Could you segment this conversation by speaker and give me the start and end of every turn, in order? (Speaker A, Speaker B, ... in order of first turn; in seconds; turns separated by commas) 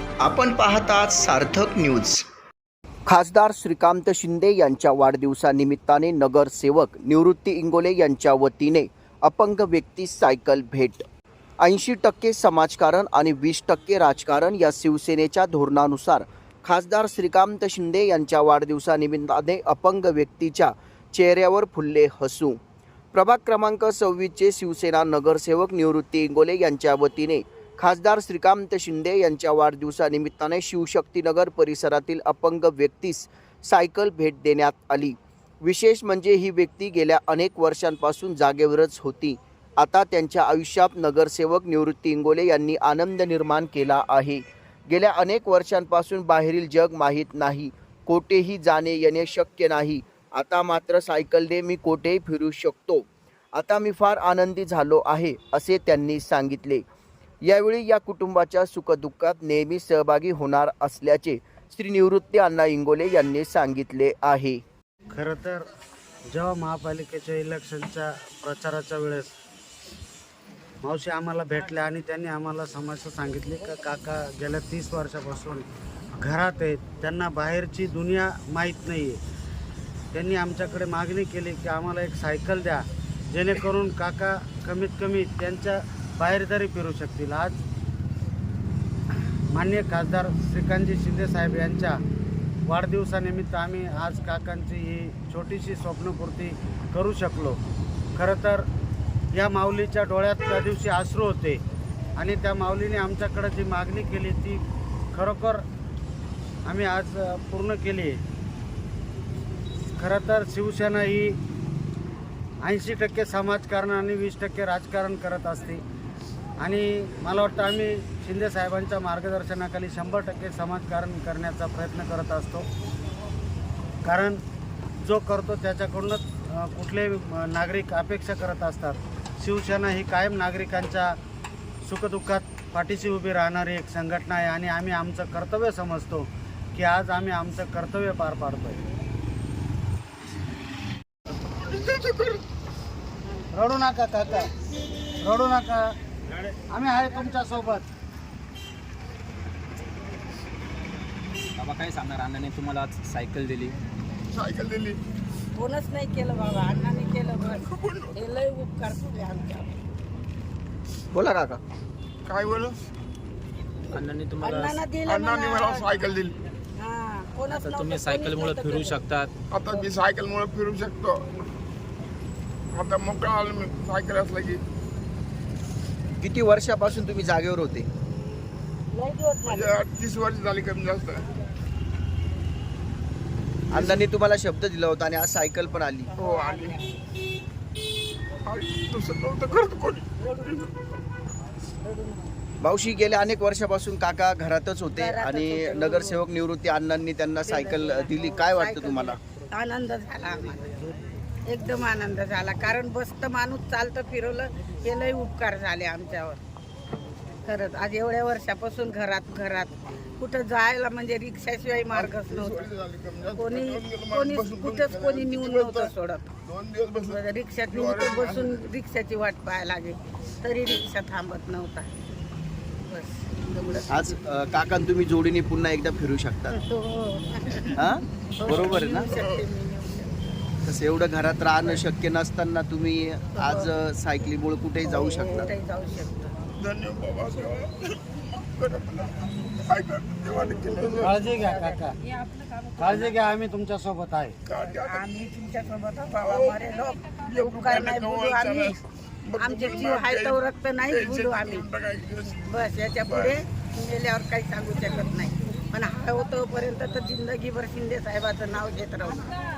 Speaker A: 0.2-2.2, Speaker A: 3.1-11.0, Speaker A: 11.6-22.6, Speaker A: 23.1-56.8, Speaker A: 57.4-64.6, Speaker B: 65.1-65.7, Speaker B: 66.3-69.3, Speaker B: 70.8-79.2, Speaker B: 80.1-87.6, Speaker B: 89.5-92.0, Speaker B: 92.7-97.6, Speaker B: 98.2-98.6, Speaker B: 99.3-101.6, Speaker B: 102.2-104.6, Speaker B: 105.1-105.6, Speaker B: 106.7-108.2, Speaker B: 110.0-111.4, Speaker B: 112.6-115.8, Speaker B: 116.6-122.7, Speaker B: 124.0-124.4, Speaker B: 125.0-131.2, Speaker B: 131.8-138.8, Speaker C: 141.6-142.4, Speaker B: 143.5-144.5, Speaker B: 145.2-147.9, Speaker D: 151.6-153.8, Speaker C: 154.3-155.0, Speaker E: 155.5-159.8, Speaker C: 157.5-158.1, Speaker A: 161.1-161.6, Speaker C: 162.2-162.8, Speaker D: 163.9-164.8, Speaker E: 164.4-165.9, Speaker C: 165.1-166.4, Speaker E: 166.8-169.0, Speaker D: 167.5-169.3, Speaker C: 169.5-171.2, Speaker C: 172.7-174.6, Speaker A: 176.2-177.9, Speaker E: 178.9-179.8, Speaker C: 179.4-181.2, Speaker A: 183.7-186.1, Speaker C: 186.2-186.8, Speaker E: 186.2-186.9, Speaker C: 188.4-190.7, Speaker E: 190.2-190.7, Speaker E: 191.8-192.3, Speaker A: 192.6-199.2, Speaker E: 194.9-196.2, Speaker E: 197.4-206.4, Speaker E: 207.4-212.7, Speaker C: 211.9-215.9, Speaker E: 213.4-216.3, Speaker C: 216.4-217.2, Speaker E: 217.1-221.9, Speaker C: 217.7-218.6, Speaker E: 222.9-224.2, Speaker A: 223.9-226.6, Speaker E: 226.5-230.1, Speaker A: 227.8-229.1, Speaker C: 228.4-229.4, Speaker A: 230.6-235.5, Speaker E: 233.3-233.7, Speaker E: 234.8-236.3, Speaker C: 236.6-241.2, Speaker E: 240.4-243.2, Speaker B: 241.0-242.0, Speaker B: 242.8-244.4, Speaker C: 244.4-245.1, Speaker E: 244.5-248.8, Speaker C: 246.2-246.6, Speaker C: 247.2-252.4, Speaker E: 249.4-251.7, Speaker E: 252.4-259.3, Speaker C: 253.0-253.4